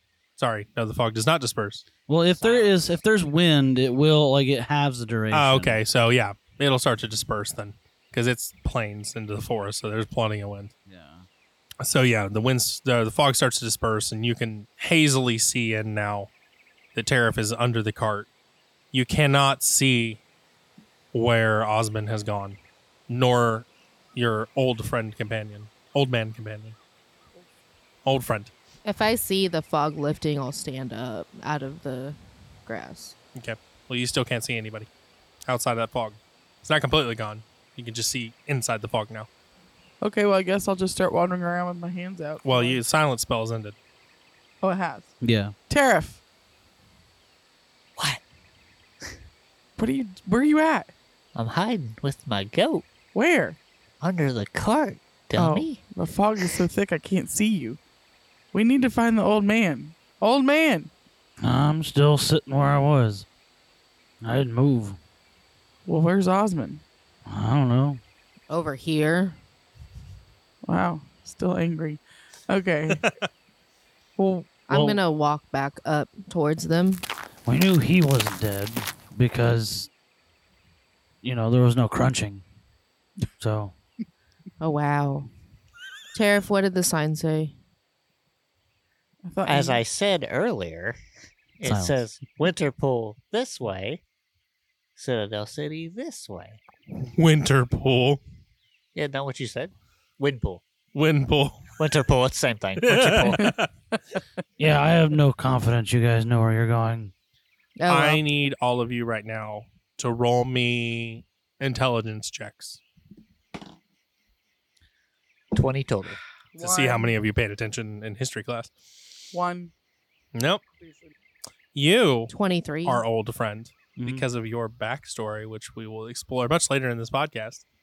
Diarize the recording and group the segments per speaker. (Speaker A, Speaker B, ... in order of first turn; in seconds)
Speaker A: 0.4-1.9, 5.3-10.7, 11.8-16.3, 16.9-18.3, 18.9-20.2, 21.1-26.8, 28.0-28.5, 33.3-34.9, 35.4-39.3, 42.4-43.7, 97.0-98.2, 100.9-101.7, 102.8-103.7, 107.9-112.8, 116.6-118.7, 120.3-120.6, 121.7-122.3, 122.8-127.6
Speaker B: 2.1-5.8, 10.8-11.3, 45.2-45.5, 61.4-63.3, 64.2-65.0, 67.2-68.0, 74.7-75.0, 77.4-79.9, 81.2-82.4, 83.4-83.8, 91.6-92.0, 104.6-107.1, 124.0-124.2
Speaker C: 2.4-2.7, 51.3-52.9, 54.0-55.8, 89.5-91.0, 91.6-94.0, 95.0-96.6, 98.9-100.6, 101.8-103.5, 115.5-116.2
Speaker D: 28.8-33.1, 68.5-69.4, 74.7-77.0, 84.6-85.3, 86.1-87.5, 107.8-108.2, 122.3-123.0
Speaker E: 40.0-42.8, 44.6-45.1, 45.7-46.2, 49.8-50.9, 53.1-53.6, 55.4-57.8, 58.5-60.9, 65.8-66.8, 70.6-73.0, 74.2-74.6, 89.2-89.8, 116.5-117.1, 119.3-119.7, 120.8-121.1